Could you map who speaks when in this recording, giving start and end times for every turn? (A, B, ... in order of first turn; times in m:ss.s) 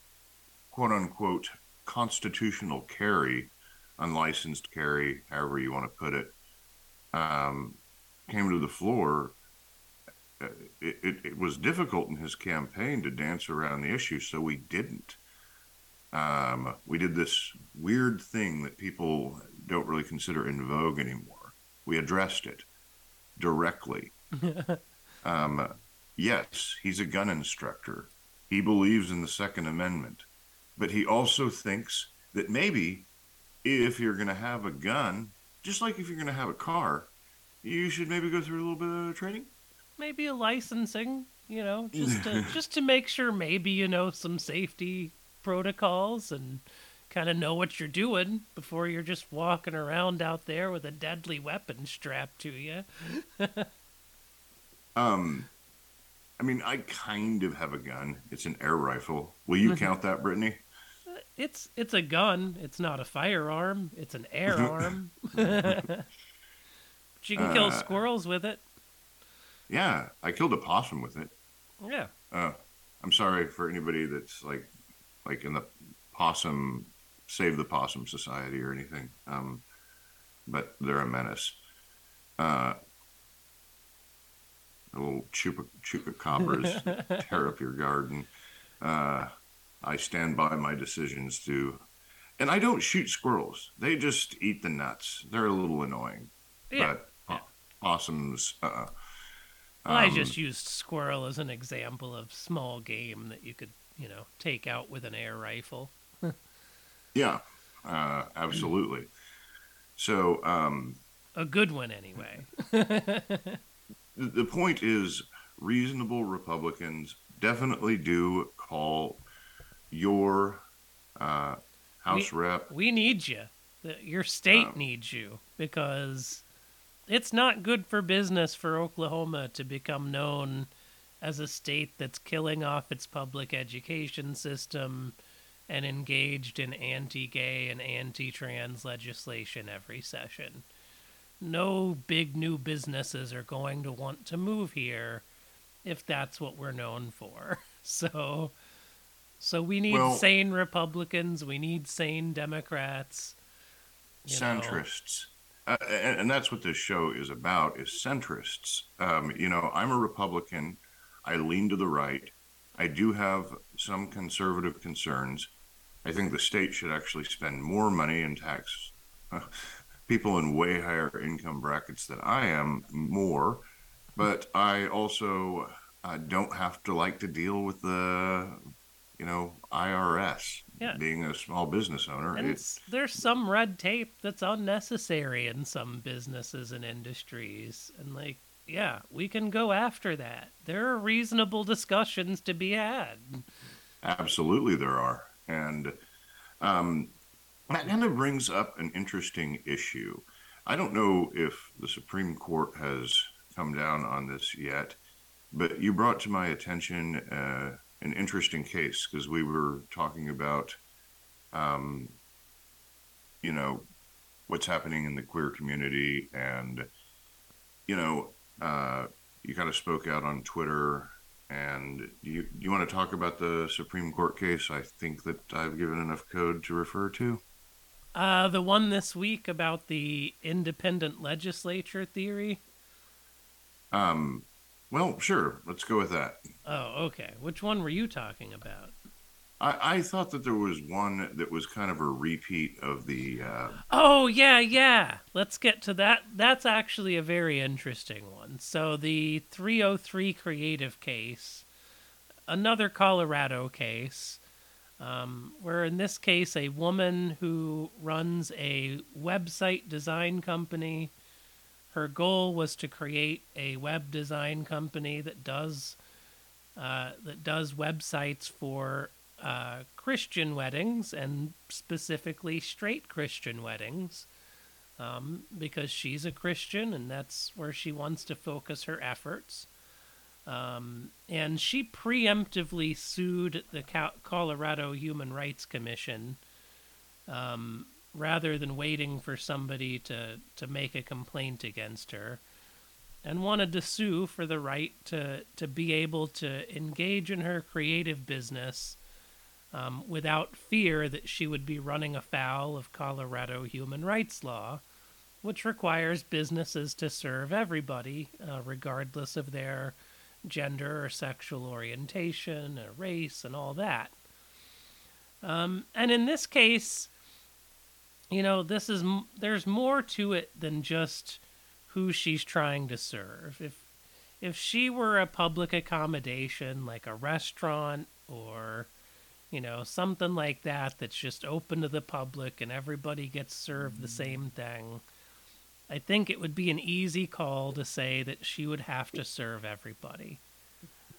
0:00.7-0:06.4 A
0:07.1-0:09.4 A
0:10.4-0:15.2 A
0:16.1-0:22.7 A
0:23.4-0:24.1 A
0:24.4-0:24.8 B
0:25.2-0:33.1 A
0:33.6-0:37.1 A
0:37.6-0:39.5 A
0:40.0-0:53.7 B
0:42.0-0:42.5 A
0:55.0-0:55.5 A
0:56.4-1:00.6 A
1:01.1-1:06.1 B
1:04.5-1:04.9 A
1:07.2-1:08.6 B
1:07.4-1:08.0 A
1:09.7-1:11.3 A
1:11.8-1:12.1 B
1:12.3-1:14.7 A
1:15.2-1:19.6 A
1:20.5-1:21.6 A
1:22.4-1:22.8 A
1:24.9-1:28.3 A
1:26.9-1:27.2 B
1:28.8-1:31.8 A
1:32.4-1:38.9 A
1:36.7-1:37.4 B
1:39.8-1:40.4 A
1:39.9-1:46.4 B
1:47.2-1:49.1 A
1:50.0-1:51.0 A
1:51.4-1:53.6 B
1:54.2-1:59.2 A
1:59.9-2:00.6 A
2:01.2-2:02.7 A
2:02.1-2:06.4 B
2:07.1-2:10.7 B
2:11.2-2:15.2 B
2:15.7-2:20.7 B
2:21.4-2:25.3 B
2:25.8-2:28.6 B
2:29.4-2:33.4 B
2:29.9-2:30.3 A
2:34.2-2:34.8 B
2:34.3-2:45.5 A
2:46.0-2:53.6 A
2:54.2-2:58.6 A
2:59.2-3:02.6 A
3:02.4-3:13.5 B
3:14.0-3:16.0 A
3:16.6-3:17.1 A
3:17.7-3:25.0 A
3:25.5-3:30.8 A
3:31.5-3:32.1 A
3:33.4-3:33.9 A
3:34.5-3:36.9 A
3:37.9-3:47.4 A
3:48.2-3:52.6 B
3:53.9-3:56.4 A
3:56.6-3:59.0 B
3:59.6-4:03.8 A
4:03.9-4:11.7 B
4:12.5-4:14.4 B
4:15.0-4:21.1 B
4:21.9-4:26.0 B
4:26.8-4:34.3 B
4:35.0-4:39.7 B
4:40.5-4:46.4 B
4:47.3-4:52.4 B
4:53.2-4:59.0 B
4:59.7-5:04.8 B
5:05.4-5:14.2 B
5:15.4-5:17.1 B
5:18.3-5:23.9 B
5:24.4-5:28.9 B
5:29.5-5:35.0 B
5:35.9-5:40.4 B